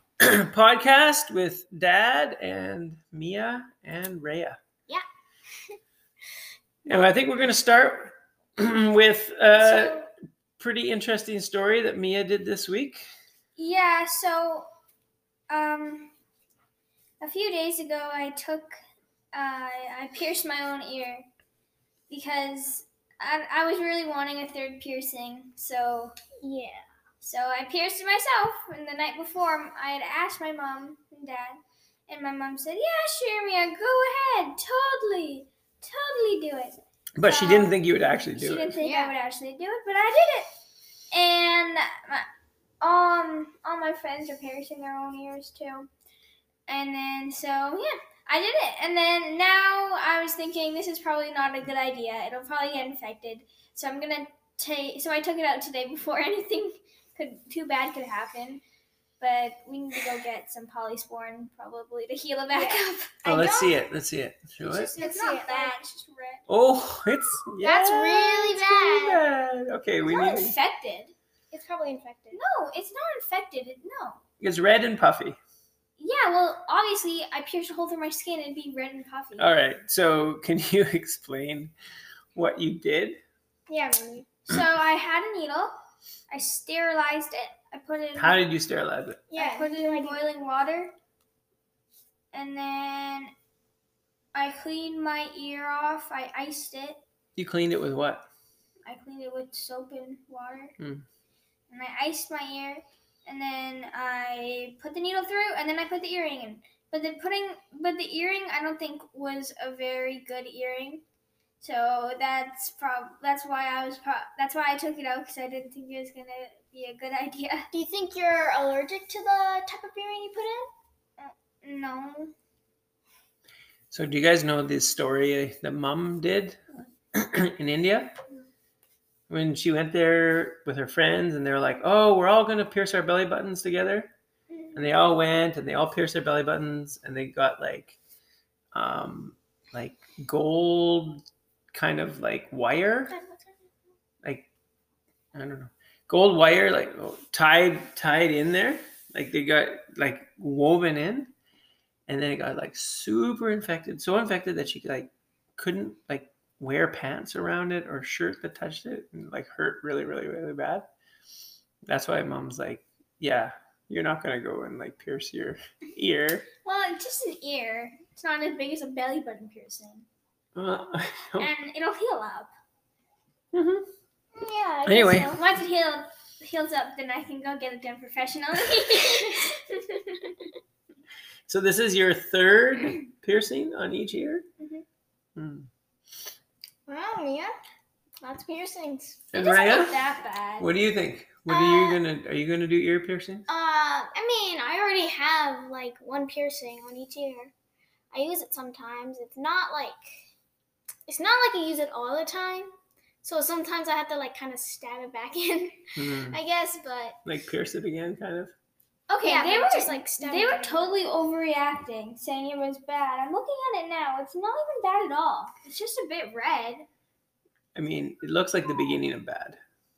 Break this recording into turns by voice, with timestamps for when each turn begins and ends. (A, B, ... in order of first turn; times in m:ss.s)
0:00.2-0:04.6 A
0:06.8-0:10.0 A
0:09.7-0:10.0 B
0:10.6-0:13.1 A
0:13.6-0:14.7 B
0:15.5-0:16.1 B
0:17.2-0:18.7 B
0:19.3-0:21.3 B
0:22.1-0:26.2 B
0:26.4-0:26.8 C
0:27.2-0:37.7 B
0:37.2-0:38.8 A
0:38.3-0:40.5 B
0:38.8-0:39.1 C
0:41.1-0:42.3 B
0:42.8-0:45.9 B
0:46.7-0:58.6 B
0:59.2-1:03.1 B
1:02.5-1:03.8 C
1:03.2-1:04.9 A
1:04.6-1:06.4 B
1:05.0-1:05.7 C
1:06.5-1:10.5 A
1:07.6-1:09.2 C
1:10.0-1:11.1 B
1:11.5-1:12.4 C
1:12.3-1:14.2 B
1:14.4-1:15.4 A
1:16.0-1:19.5 B
1:19.4-1:21.7 A
1:22.3-1:23.2 A
1:23.7-1:24.3 C
1:24.5-1:25.8 B
1:26.3-1:28.4 B
1:28.2-1:29.2 A
1:29.3-1:30.2 C
1:29.3-1:30.9 B
1:32.3-1:33.3 B
1:34.3-1:37.0 B
1:37.4-1:38.3 A
1:38.8-1:40.7 B
1:40.8-1:41.0 A
1:41.7-1:51.0 B
1:51.6-1:57.7 B
1:57.7-2:00.7 C
2:01.2-2:02.3 B
2:03.9-2:06.6 A
2:07.1-2:08.1 A
2:09.3-2:14.1 A
2:14.5-2:14.9 C
2:14.7-2:18.0 A
2:18.7-2:23.1 A
2:23.1-2:23.6 C
2:25.3-2:31.3 A
2:32.1-2:40.8 A
2:41.8-2:46.4 A
2:46.6-2:50.0 B
2:50.5-2:51.5 A
2:51.4-2:52.5 B
2:53.5-2:53.9 A
2:54.3-2:55.4 C
2:54.8-2:55.3 A
2:55.3-2:59.8 B
2:58.9-2:59.3 C
3:01.5-3:04.4 A
3:05.4-3:05.7 A
3:06.9-3:07.5 C
3:08.2-3:09.3 C
3:09.3-3:10.0 A
3:09.3-3:10.7 B
3:10.6-3:13.5 A
3:11.5-3:12.0 C
3:13.5-3:17.5 C
3:18.1-3:20.2 C
3:21.1-3:22.7 C
3:23.2-3:27.2 C
3:26.0-3:26.4 A
3:27.2-3:28.5 A
3:29.1-3:30.9 C
3:29.2-3:36.8 B
3:37.7-3:39.6 A